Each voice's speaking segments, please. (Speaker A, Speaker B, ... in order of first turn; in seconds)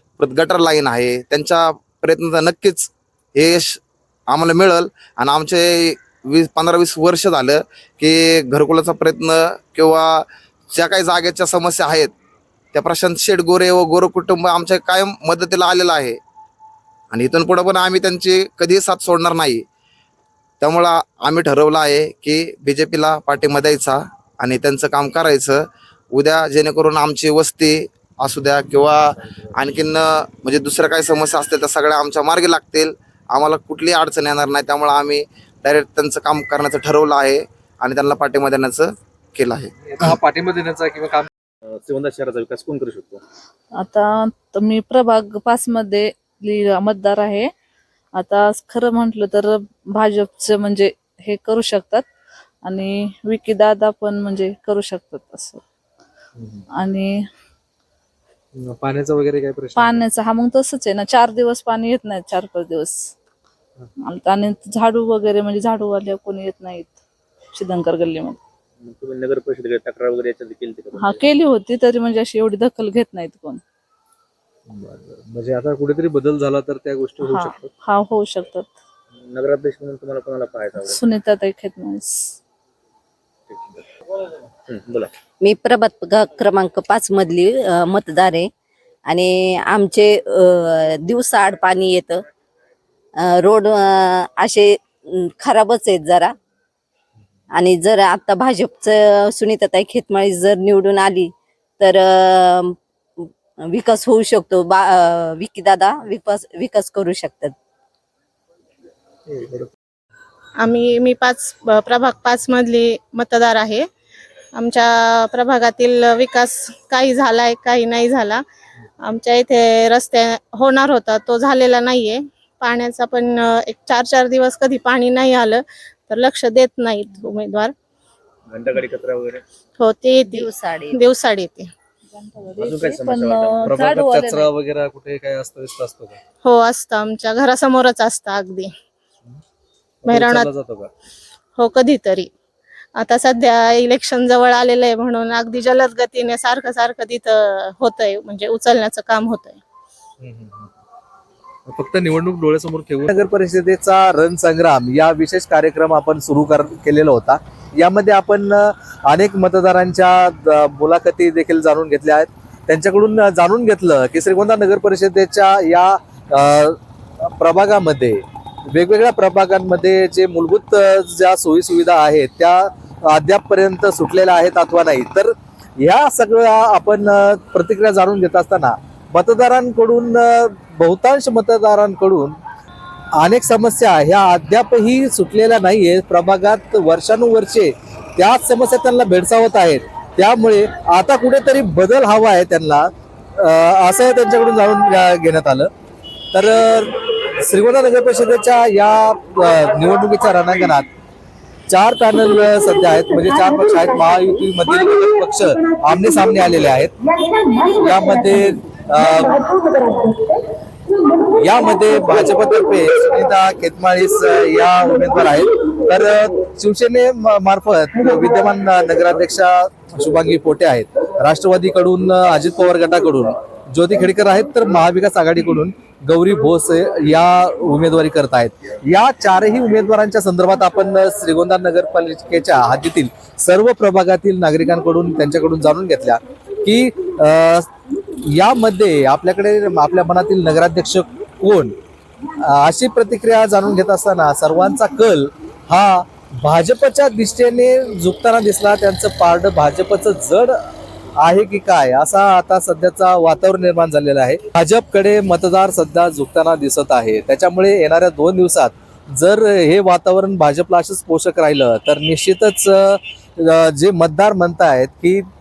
Speaker A: 0.2-12.1, 12.7-16.2, 17.1-19.6, 20.6-25.6, 26.1-29.0, 29.6-40.2
Speaker B: 39.8-41.3, 58.5-60.0, 74.7-77.7, 109.3-109.7, 133.6-136.2, 140.0-140.9, 150.2-150.7, 151.7-182.4, 183.2-195.7, 196.3-200.9, 201.7-206.9, 207.7-209.5, 211.3-237.7, 238.2-241.8, 242.4-250.6, 251.2-265.3
Speaker C: 41.7-43.2, 68.8-71.2, 79.3-80.9, 83.5-83.8, 84.7-85.1, 128.5-129.4, 132.6-133.6
Speaker D: 43.7-47.5, 48.1-52.1, 52.6-55.6, 56.7-57.2, 59.7-63.1, 64.0-67.0, 67.5-68.4, 70.9-73.6, 77.2-78.8, 80.7-82.3, 132.1-134.5
Speaker E: 85.4-88.5, 89.1-92.2, 93.2-96.3, 97.6-102.7, 103.7-107.5, 130.3-131.0
Speaker F: 110.6-113.8, 114.5-118.4, 119.0-127.7, 129.8-131.7, 136.4-138.7, 140.1-140.5, 141.6-142.3, 142.9-149.6